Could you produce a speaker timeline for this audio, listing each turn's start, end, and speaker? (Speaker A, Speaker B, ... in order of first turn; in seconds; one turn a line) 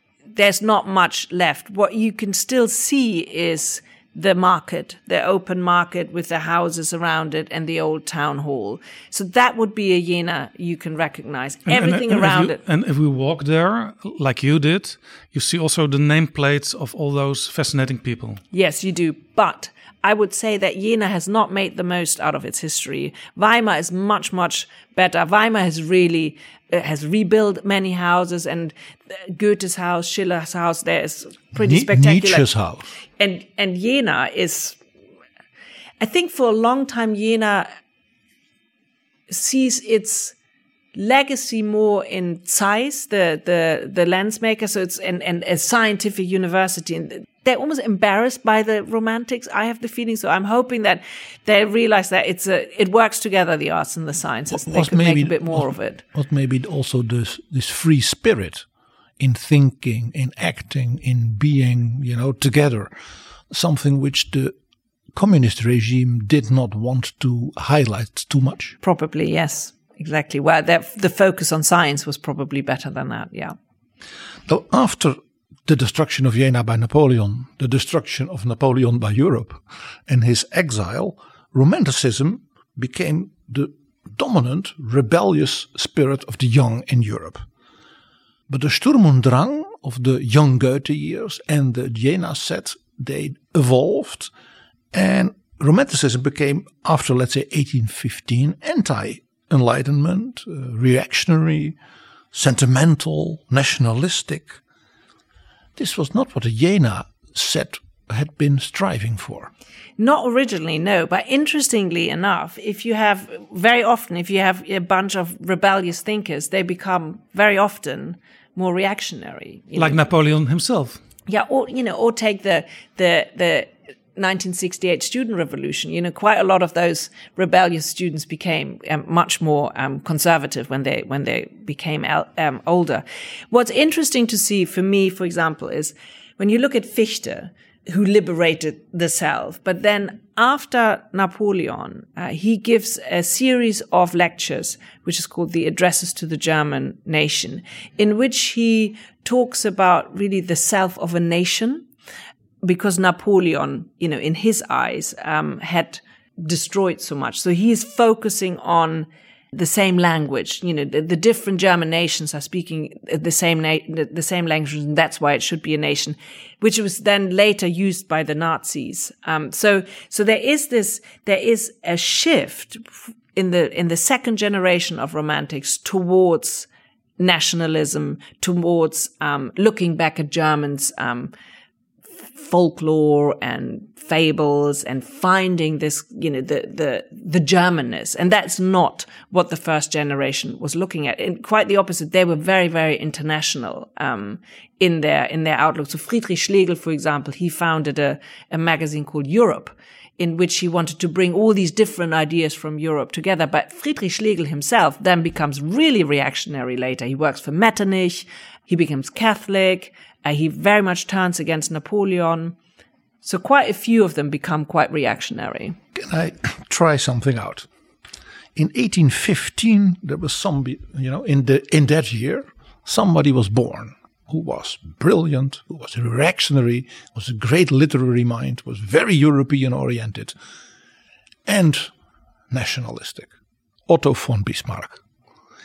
Speaker A: 0.3-12.6
Speaker B: 11.7-18.4
Speaker A: 18.5-32.5
Speaker C: 31.5-32.9
Speaker A: 33.2-34.8
Speaker A: 36.0-37.7
Speaker A: 39.3-40.4
Speaker A: 40.9-56.0
Speaker C: 54.5-58.7
Speaker C: 59.2-62.9
Speaker C: 63.5-64.5
Speaker C: 65.1-68.8
Speaker A: 68.8-73.6
Speaker C: 74.5-87.5
Speaker C: 88.5-94.3
Speaker C: 94.9-101.8
Speaker C: 102.3-104.6
Speaker C: 105.8-109.5
Speaker A: 110.0-120.0
Speaker B: 119.8-121.0
Speaker A: 121.3-151.9
Speaker A: 152.6-176.7
Speaker A: 177.2-181.3
Speaker A: 182.3-212.6
Speaker A: 213.2-215.8
Speaker C: 215.9-217.7
Speaker C: 218.6-230.4
Speaker C: 231.5-231.9
Speaker C: 232.5-233.3
Speaker C: 233.9-235.0